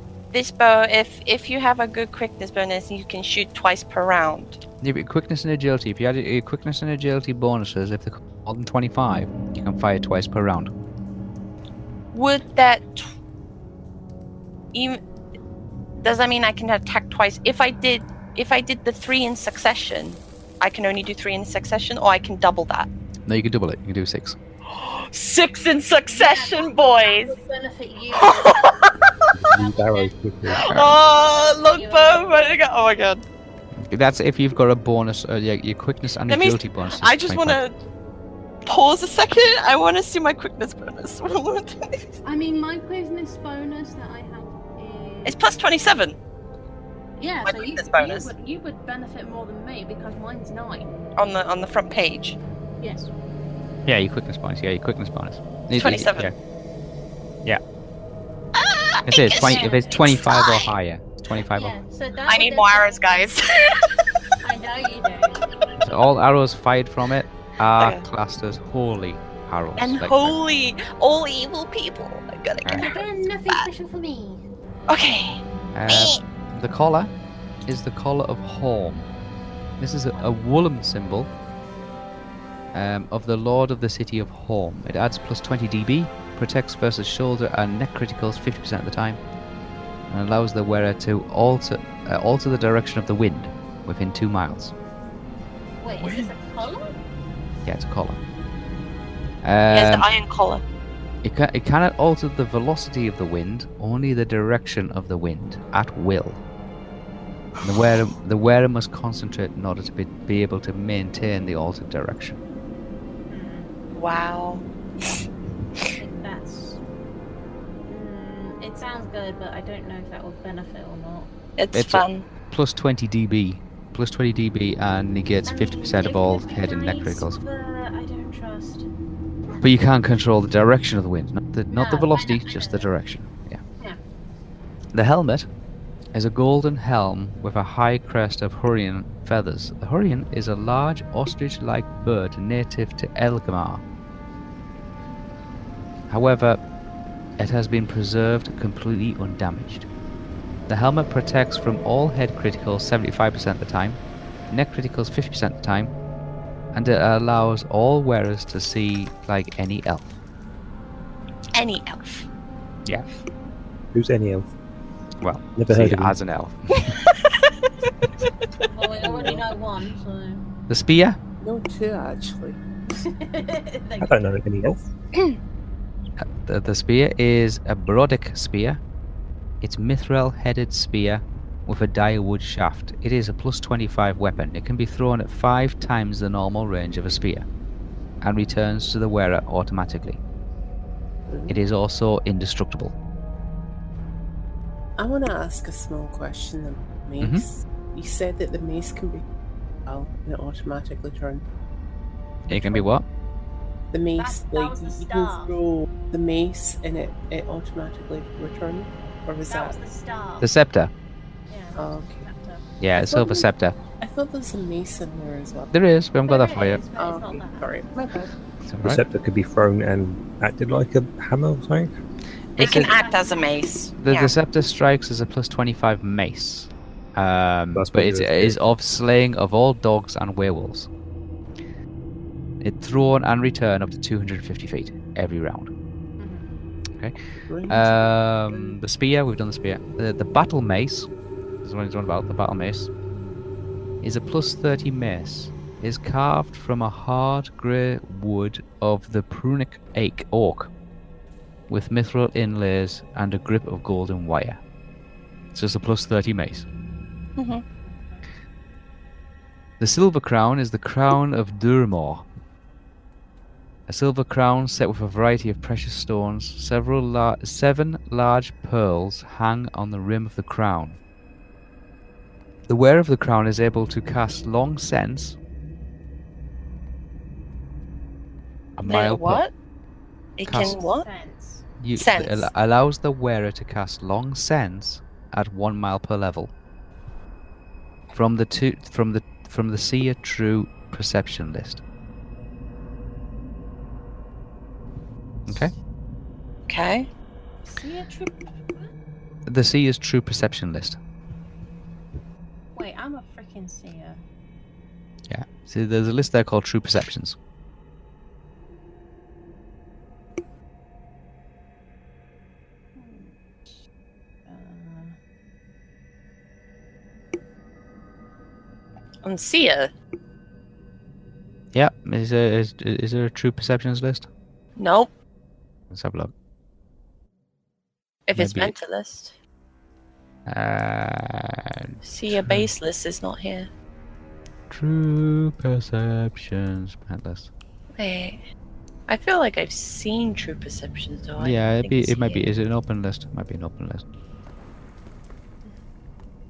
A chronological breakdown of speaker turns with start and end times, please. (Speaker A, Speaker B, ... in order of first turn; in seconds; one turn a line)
Speaker A: 0.3-4.6
Speaker B: 4.8-10.7
Speaker A: 12.1-13.1
Speaker A: 14.7-15.0
Speaker A: 16.0-22.9
Speaker B: 23.3-24.4
Speaker A: 24.7-27.4
Speaker C: 26.1-28.6
Speaker A: 28.1-29.0
Speaker D: 29.3-30.6
Speaker C: 29.5-30.1
Speaker A: 30.6-33.2
Speaker B: 30.6-30.9
Speaker C: 30.6-32.6
Speaker B: 33.8-37.6
Speaker A: 36.3-37.8
Speaker A: 38.6-42.1
Speaker C: 42.2-45.4
Speaker A: 45.2-46.2
Speaker C: 47.2-51.0
Speaker A: 47.4-48.3
Speaker A: 51.1-52.4
Speaker C: 52.8-53.1
Speaker B: 53.9-56.3
Speaker A: 55.7-56.3
Speaker A: 58.6-60.7
Speaker B: 59.0-61.8
Speaker C: 59.3-60.0
Speaker C: 61.5-63.3
Speaker A: 62.3-63.9
Speaker C: 64.4-65.4
Speaker B: 65.8-70.4
Speaker A: 67.8-68.0
Speaker A: 69.8-73.7
Speaker B: 72.6-72.9
Speaker C: 72.7-74.4
Speaker A: 74.9-76.2
Speaker B: 75.7-77.1
Speaker B: 77.7-79.1
Speaker B: 79.8-81.3
Speaker B: 82.7-89.2
Speaker B: 90.1-94.7
Speaker C: 95.8-96.9
Speaker A: 96.0-96.3
Speaker B: 97.6-98.2
Speaker B: 99.4-100.1
Speaker A: 99.7-100.6
Speaker B: 101.2-106.4
Speaker B: 107.6-112.4
Speaker C: 113.3-113.7
Speaker A: 113.9-115.2
Speaker C: 116.0-116.8
Speaker C: 117.9-121.3
Speaker A: 121.6-122.2
Speaker B: 121.7-127.4
Speaker C: 125.4-128.9
Speaker B: 129.6-133.6
Speaker C: 131.7-132.9
Speaker B: 134.9-135.5
Speaker B: 136.1-143.8
Speaker B: 146.1-146.6
Speaker B: 147.4-149.9
Speaker B: 150.7-155.9
Speaker B: 156.7-160.2
Speaker A: 161.5-162.3
Speaker D: 163.9-164.5
Speaker B: 165.2-166.9
Speaker D: 165.6-166.2
Speaker A: 166.9-167.4
Speaker C: 168.6-170.4
Speaker E: 169.0-169.4
Speaker B: 170.7-171.2
Speaker E: 171.4-172.6
Speaker C: 172.9-174.2
Speaker D: 174.0-174.8
Speaker B: 176.2-178.8
Speaker B: 179.6-187.5
Speaker B: 188.2-190.2
Speaker E: 191.3-191.6
Speaker B: 191.5-192.9
Speaker E: 195.0-199.2
Speaker B: 197.2-197.4
Speaker E: 199.8-201.4
Speaker B: 202.5-203.0
Speaker E: 202.5-202.9
Speaker E: 203.9-209.8
Speaker C: 204.2-205.6
Speaker C: 209.5-210.5
Speaker B: 210.4-210.9
Speaker C: 211.5-212.6
Speaker E: 211.7-212.2
Speaker B: 212.8-213.8
Speaker E: 212.9-213.5
Speaker E: 214.0-215.7
Speaker B: 215.7-216.8
Speaker C: 216.2-217.8
Speaker E: 216.9-218.3
Speaker B: 218.7-219.0
Speaker D: 218.8-221.9
Speaker B: 222.6-222.9
Speaker A: 222.6-224.3
Speaker C: 222.6-223.6
Speaker B: 224.0-230.9
Speaker D: 227.7-228.6
Speaker B: 232.6-235.7
Speaker C: 236.2-236.6
Speaker E: 237.5-238.8
Speaker B: 237.7-241.1
Speaker B: 241.6-242.9
Speaker C: 243.1-243.4
Speaker B: 244.0-250.7
Speaker B: 251.7-254.6
Speaker B: 255.5-256.6
Speaker A: 257.4-257.6
Speaker C: 257.9-258.2
Speaker B: 259.8-262.2
Speaker B: 263.9-271.0
Speaker B: 272.7-275.4
Speaker B: 278.8-279.4
Speaker A: 278.8-279.5
Speaker A: 280.4-281.1
Speaker B: 280.4-280.8
Speaker C: 280.5-281.7
Speaker B: 281.8-286.5
Speaker A: 281.9-282.5
Speaker B: 288.1-291.8
Speaker B: 295.5-295.7
Speaker A: 296.7-297.1
Speaker C: 297.6-298.9
Speaker B: 299.4-301.0
Speaker C: 302.7-304.2
Speaker B: 305.3-307.4
Speaker C: 312.9-313.4
Speaker C: 314.4-315.2
Speaker A: 319.2-319.9
Speaker B: 321.7-324.3
Speaker A: 324.8-325.1
Speaker B: 325.9-326.3
Speaker A: 328.3-329.3
Speaker B: 328.4-328.7
Speaker B: 330.5-332.7
Speaker A: 332.0-333.7
Speaker B: 334.7-337.5
Speaker A: 337.9-338.4
Speaker A: 339.1-342.5
Speaker B: 341.4-344.0